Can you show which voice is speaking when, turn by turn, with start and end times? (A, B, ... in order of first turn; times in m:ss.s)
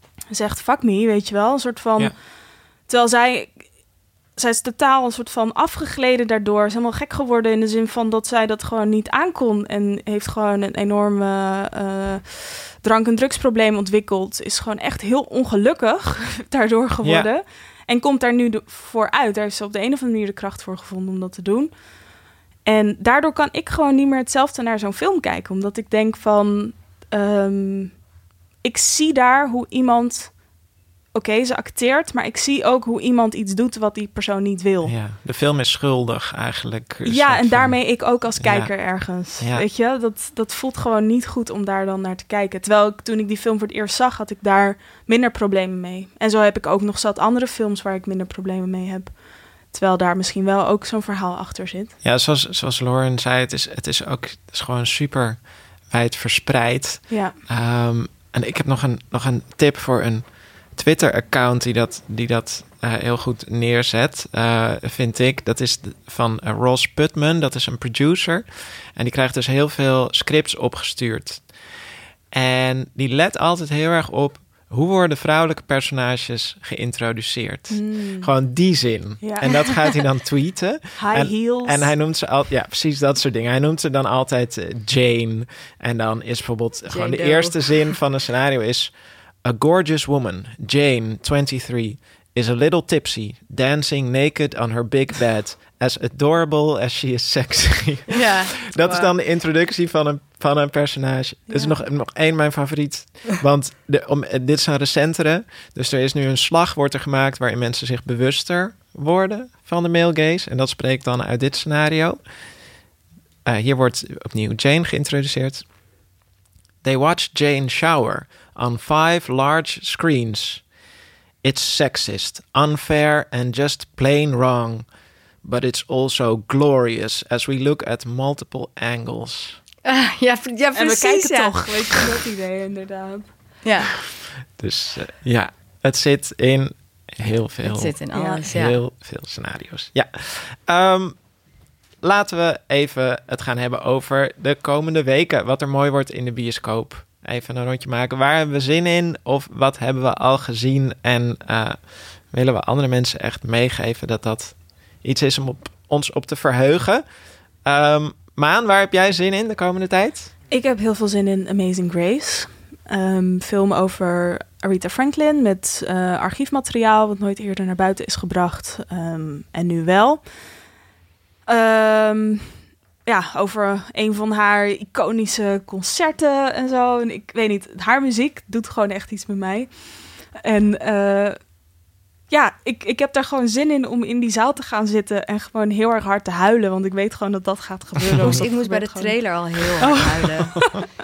0:00.3-0:02.2 A
0:02.9-0:03.7 A
0:04.4-0:21.7 A
0:17.0-0:17.3 B
0:22.6-0:28.0 A
0:28.6-0:30.6 A
0:31.1-0:34.9 A
0:34.8-0:39.6 B
0:37.0-0:51.9 A
0:52.0-1:11.5 B
0:57.1-0:57.4 A
1:12.3-1:28.9 B
1:17.7-1:18.3 A
1:19.2-1:19.7 A
1:21.0-1:22.0 A
1:26.9-1:27.9 C
1:29.4-1:52.2 B
1:38.1-1:39.1 C
1:41.5-1:41.8 A
1:53.4-1:55.6 B
1:56.8-2:00.7 B
2:01.4-2:04.9 B
2:05.4-2:09.6 B
2:09.8-2:11.8 C
2:10.7-2:13.3 A
2:13.6-2:13.9 C
2:14.5-2:21.2 B
2:17.6-2:18.8 C
2:18.1-2:18.4 A
2:22.0-2:37.0 B
2:37.6-2:40.3 B
2:40.5-2:50.2 A
2:51.5-2:52.5 A
2:53.0-3:01.4 A
3:02.3-3:10.8 A
3:08.2-3:10.6 C